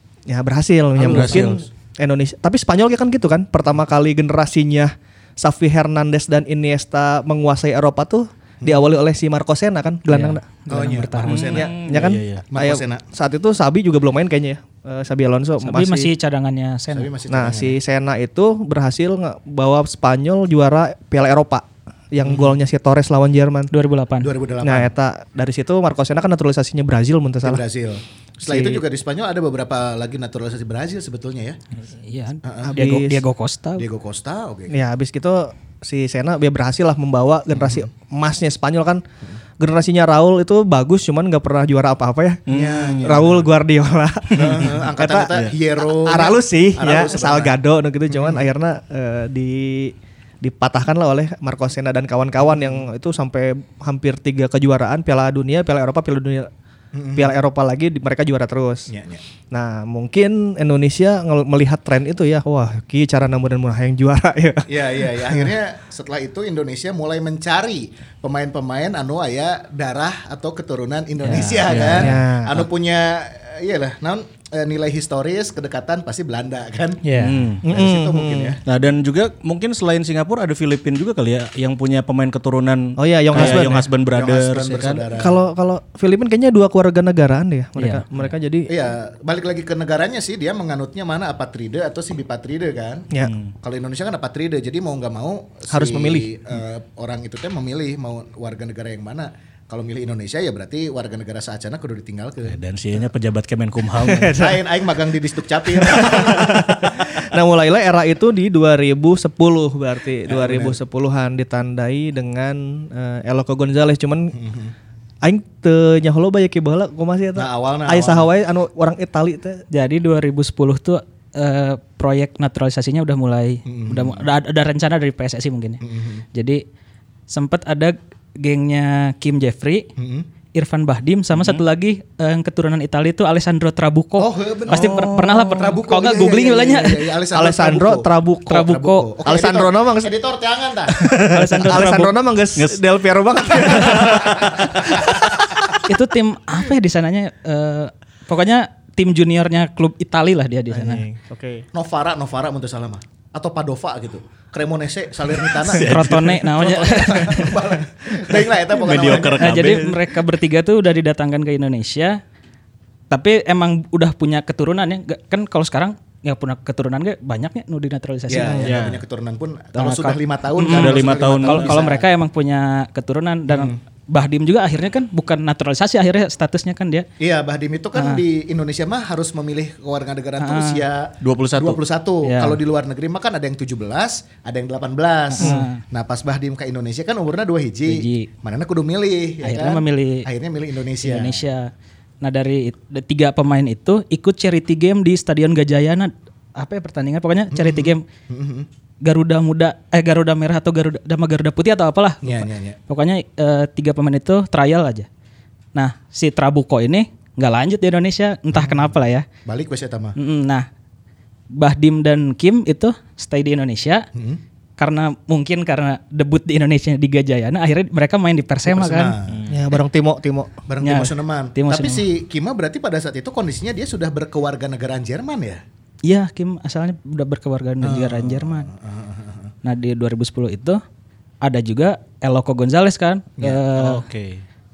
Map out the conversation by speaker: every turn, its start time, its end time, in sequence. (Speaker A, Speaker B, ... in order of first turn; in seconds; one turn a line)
Speaker A: 0.3-10.5
Speaker B: 1.0-1.6
Speaker C: 1.0-1.6
Speaker C: 8.6-8.9
Speaker D: 10.1-11.6
Speaker C: 10.7-13.0
Speaker B: 11.3-12.4
Speaker A: 11.3-16.1
Speaker D: 15.6-17.1
Speaker C: 16.9-17.8
Speaker A: 17.3-23.7
Speaker C: 22.2-22.6
Speaker D: 23.7-24.3
Speaker C: 24.2-24.9
Speaker A: 24.6-27.6
Speaker C: 27.4-31.6
Speaker A: 28.5-28.8
Speaker D: 31.9-33.9
Speaker C: 32.4-32.8
Speaker A: 32.6-33.2
Speaker C: 33.8-34.8
Speaker A: 34.7-39.0
Speaker C: 37.5-37.9
Speaker A: 39.6-56.5
Speaker B: 42.5-43.4
Speaker C: 42.5-43.4
Speaker B: 44.4-44.8
Speaker C: 44.4-47.5
Speaker C: 48.1-48.4
Speaker C: 56.9-57.3
Speaker A: 57.1-58.9
Speaker C: 58.9-59.2
Speaker A: 59.5-65.5
Speaker C: 64.7-77.0
Speaker D: 71.2-71.6
Speaker B: 71.7-72.2
Speaker A: 71.7-72.7
Speaker D: 77.0-77.4
Speaker B: 77.2-77.7
Speaker A: 77.6-78.6
Speaker C: 77.7-78.6
Speaker B: 78.7-85.1
Speaker A: 83.0-83.9
Speaker C: 83.3-85.4
Speaker A: 85.2-88.7
Speaker D: 87.8-88.0
Speaker C: 88.7-93.1
Speaker B: 93.2-93.5
Speaker C: 93.6-102.6
Speaker A: 95.7-96.3
Speaker B: 102.5-104.4
Speaker A: 104.0-104.6
Speaker C: 104.3-107.2
Speaker A: 105.7-114.3
Speaker C: 110.3-110.8
Speaker C: 114.3-114.7
Speaker A: 115.2-119.6
Speaker C: 117.4-118.3
Speaker D: 119.7-125.8
Speaker C: 123.7-124.2
Speaker C: 125.8-126.2
Speaker D: 126.3-126.6
Speaker D: 127.3-129.9
Speaker C: 130.0-130.3
Speaker D: 130.5-137.0
Speaker C: 134.2-141.1
Speaker A: 137.3-140.1
Speaker D: 138.5-139.1
Speaker A: 140.9-145.3
Speaker D: 141.3-142.1
Speaker B: 142.6-142.8
Speaker B: 143.6-144.7
Speaker C: 143.7-145.7
Speaker D: 145.8-151.0
Speaker A: 150.7-151.7
Speaker C: 151.7-159.7
Speaker B: 155.7-156.4
Speaker D: 155.7-157.6
Speaker B: 158.7-159.9
Speaker D: 159.3-162.2
Speaker D: 163.1-168.6
Speaker A: 168.3-168.7
Speaker C: 168.4-172.1
Speaker B: 168.6-169.0
Speaker D: 169.8-177.1
Speaker B: 170.6-171.8
Speaker C: 173.5-173.8
Speaker C: 177.2-191.4
Speaker D: 177.9-178.2
Speaker D: 180.4-180.8
Speaker B: 181.2-181.8
Speaker D: 182.2-182.6
Speaker D: 185.3-185.8
Speaker A: 185.4-185.7
Speaker D: 187.9-188.3
Speaker D: 189.4-190.3
Speaker D: 191.0-191.7
Speaker D: 192.2-198.0
Speaker C: 197.5-198.7
Speaker D: 199.0-205.1
Speaker C: 202.2-202.8
Speaker D: 205.8-209.3
Speaker C: 209.5-210.2
Speaker D: 210.2-210.7
Speaker D: 211.5-214.1
Speaker C: 214.2-214.4
Speaker D: 214.8-219.2
Speaker C: 218.7-219.4
Speaker B: 219.3-219.5
Speaker A: 219.5-220.6
Speaker C: 220.7-225.6
Speaker D: 220.8-222.0
Speaker D: 226.1-228.7
Speaker C: 227.8-229.5
Speaker D: 229.6-230.8
Speaker D: 231.4-234.0
Speaker B: 233.8-234.4